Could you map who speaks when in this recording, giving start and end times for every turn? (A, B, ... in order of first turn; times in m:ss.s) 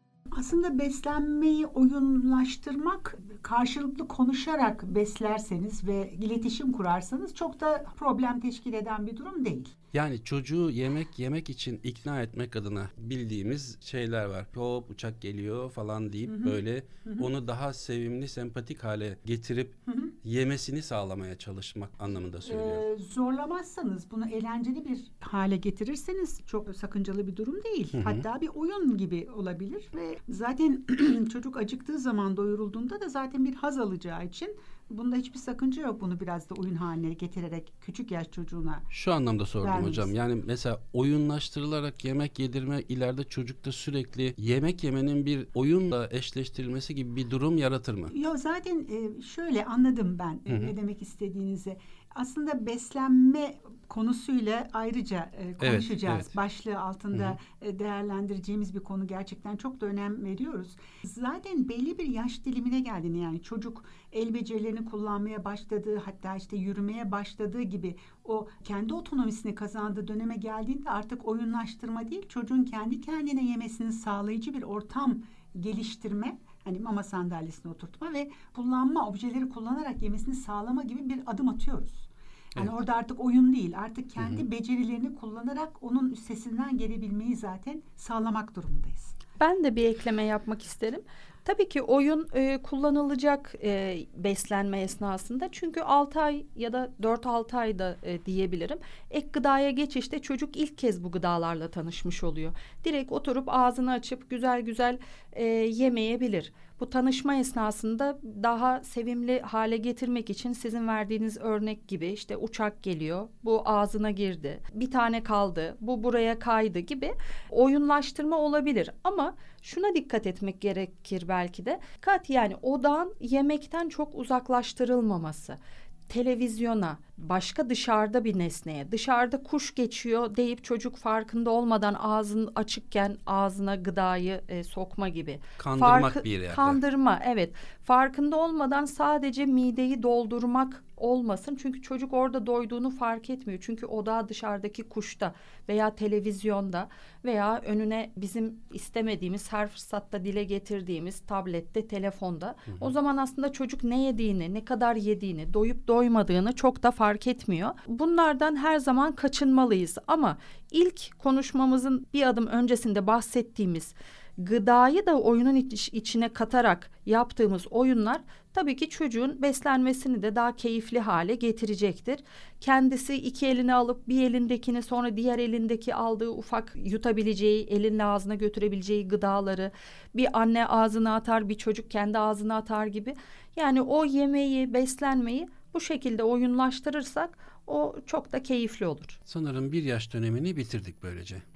0:00.3-0:09.8 A
0:09.9-0:22.8 B
0:16.3-0:17.3 A
0:19.9-0:20.1 A
0:22.4-0:38.9 A
0:27.9-0:28.2 B
0:38.9-0:48.2 B
0:39.6-0:40.1 A
0:48.1-1:29.2 A
0:50.5-0:50.7 B
0:55.6-0:56.3 B
1:24.2-1:24.4 B
1:29.4-2:05.6 C
2:06.1-3:09.2 C
2:15.6-2:16.8 B
3:09.3-3:11.4 B